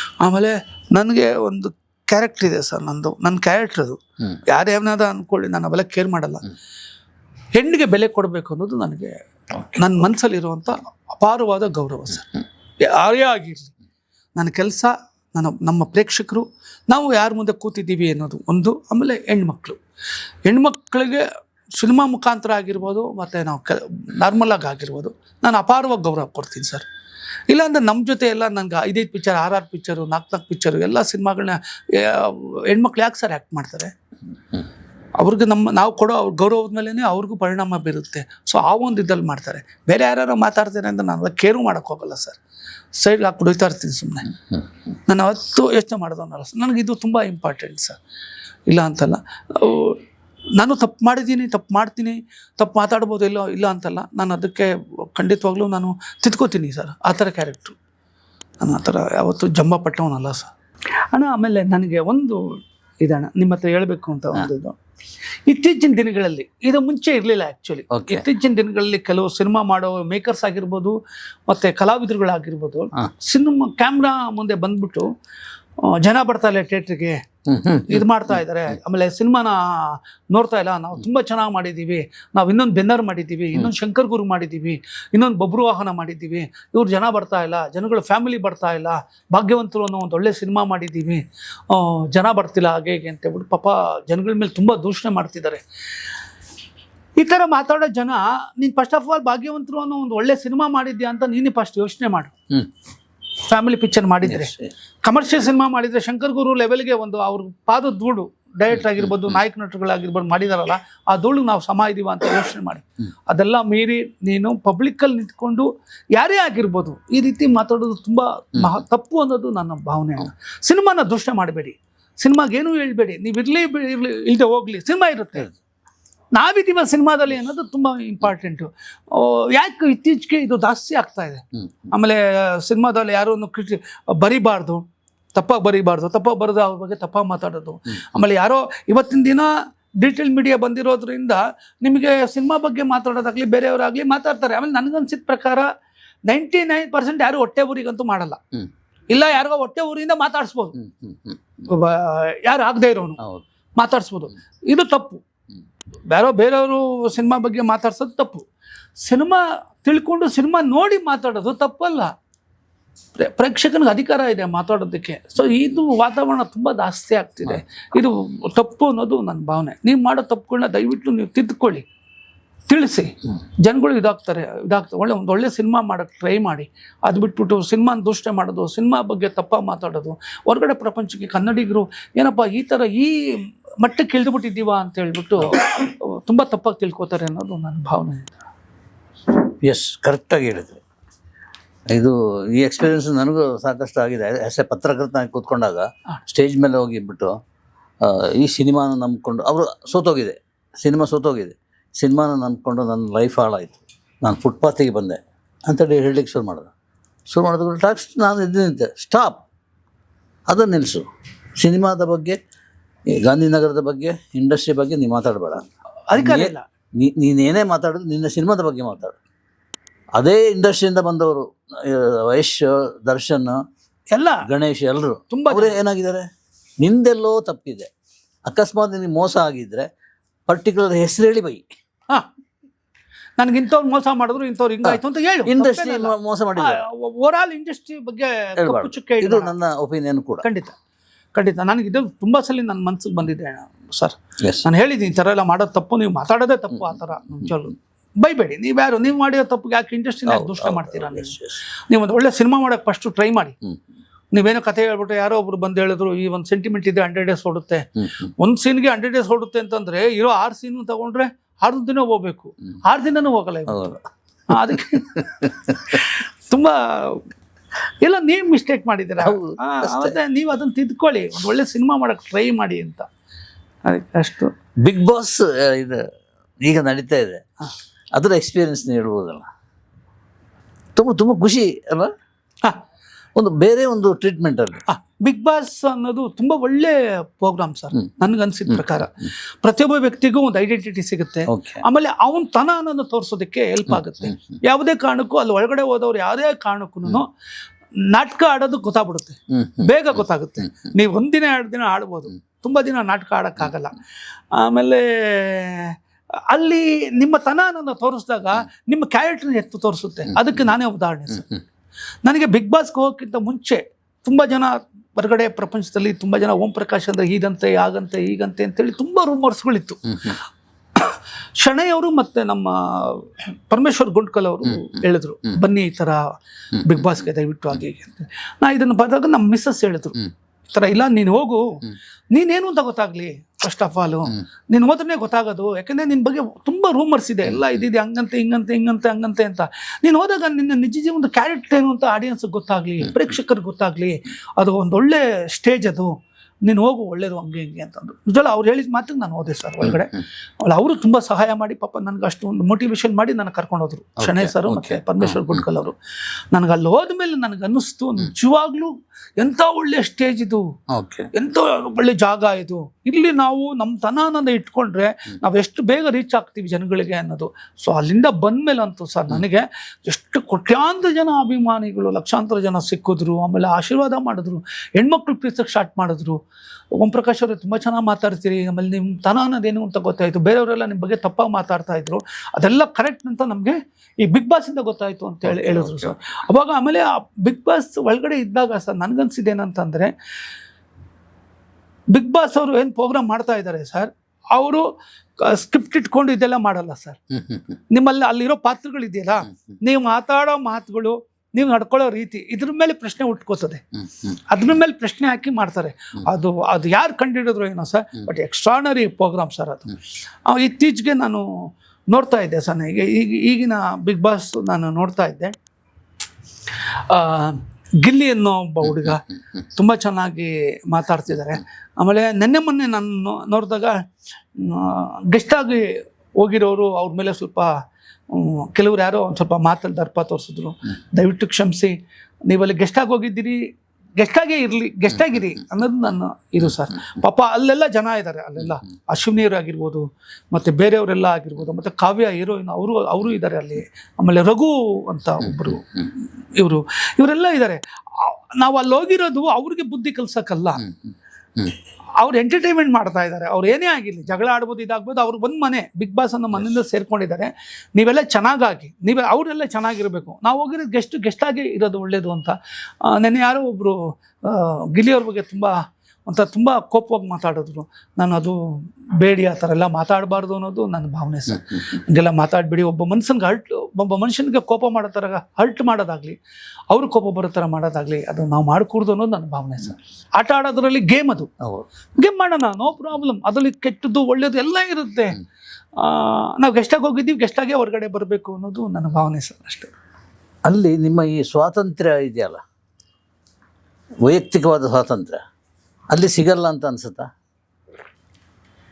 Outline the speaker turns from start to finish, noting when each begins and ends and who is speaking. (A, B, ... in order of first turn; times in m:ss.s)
0:00.2-0:06.5 A
0:07.6-0:09.1 A
0:09.6-0:13.7 A
0:14.4-0:19.8 A
0:20.5-0:21.2 A
0:21.8-0:26.8 A
0:27.5-0:33.9 A
0:35.2-0:42.4 A
0:43.0-0:44.3 A
0:45.1-0:48.0 A
0:48.7-0:50.0 A
0:50.6-0:57.8 A
0:58.6-1:00.5 A
1:01.1-1:02.4 A
1:03.0-1:04.8 A
1:05.5-1:10.9 A
1:07.9-1:08.2 B
1:11.5-1:15.1 A
1:15.8-1:17.2 A
1:17.5-1:18.1 B
1:17.8-1:35.6 A
1:37.2-1:42.3 A
1:43.5-2:05.5 A
1:44.2-1:44.7 B
1:48.8-1:49.1 B
2:06.3-2:25.7 A
2:26.3-2:28.4 A
2:29.1-2:30.8 A
2:30.8-2:31.4 B
2:31.6-2:33.2 A
2:33.8-2:35.2 A
2:36.1-2:38.4 A
2:39.0-2:42.1 A
2:43.2-2:51.8 A
2:52.7-3:08.3 A
3:09.6-3:10.8 B
3:11.9-3:17.4 B
3:18.0-3:26.7 B
3:27.3-3:29.4 B
3:30.5-3:31.0 B
3:31.6-3:32.4 B
3:33.1-3:39.2 B
3:36.1-3:36.6 A
3:40.2-3:43.6 B
3:44.1-3:44.4 A
3:44.4-3:46.2 B
3:45.3-3:45.8 A
3:46.8-3:47.9 B
3:48.4-3:49.9 B
3:50.5-3:51.6 B
3:53.4-3:59.5 A
3:54.8-3:56.8 B
3:58.6-4:00.4 B
4:00.4-4:00.7 A
4:01.3-4:11.4 A
4:04.4-4:04.6 B
4:06.9-4:07.5 B
4:10.3-4:11.6 B
4:11.9-4:13.5 A
4:14.3-4:17.8 A
4:18.4-4:24.0 A
4:23.7-4:24.0 B
4:24.5-4:27.2 A
4:24.7-4:26.0 B
4:28.0-4:33.1 A
4:29.2-4:30.2 B
4:33.8-4:34.5 A
4:34.8-4:36.0 B
4:36.6-4:37.4 B
4:38.2-4:39.5 B
4:41.0-4:42.1 B
4:43.4-4:44.8 B
4:44.9-4:57.3 A
4:51.5-4:51.8 B
4:54.2-4:54.6 B
4:58.1-5:04.0 A
4:59.5-4:59.9 B
5:04.5-5:06.0 A
5:06.5-5:11.5 A
5:12.2-5:20.4 A
5:21.0-5:26.2 A
5:26.7-5:46.1 A
5:46.6-5:55.9 A
5:54.2-5:55.6 B
5:56.5-6:00.6 A
6:00.9-6:01.3 B
6:01.3-6:16.4 A
6:17.0-6:30.1 A
6:25.4-6:26.1 B
6:32.1-6:34.8 A
6:35.4-6:37.2 A
6:37.4-6:37.6 B
6:37.9-6:51.4 A
6:52.1-6:55.5 A
6:57.1-6:59.2 A
6:59.7-7:04.0 A
7:04.6-7:07.7 A
7:08.3-7:11.9 A
7:12.5-7:13.6 A
7:14.2-7:30.9 A
7:32.2-7:45.7 A
7:46.3-7:48.6 A
7:49.2-7:56.4 A
7:56.9-8:01.5 A
8:01.6-8:01.8 B
8:02.2-8:05.4 A
8:06.0-8:09.9 A
8:10.6-8:12.6 B
8:14.2-8:15.4 B
8:16.1-8:17.3 B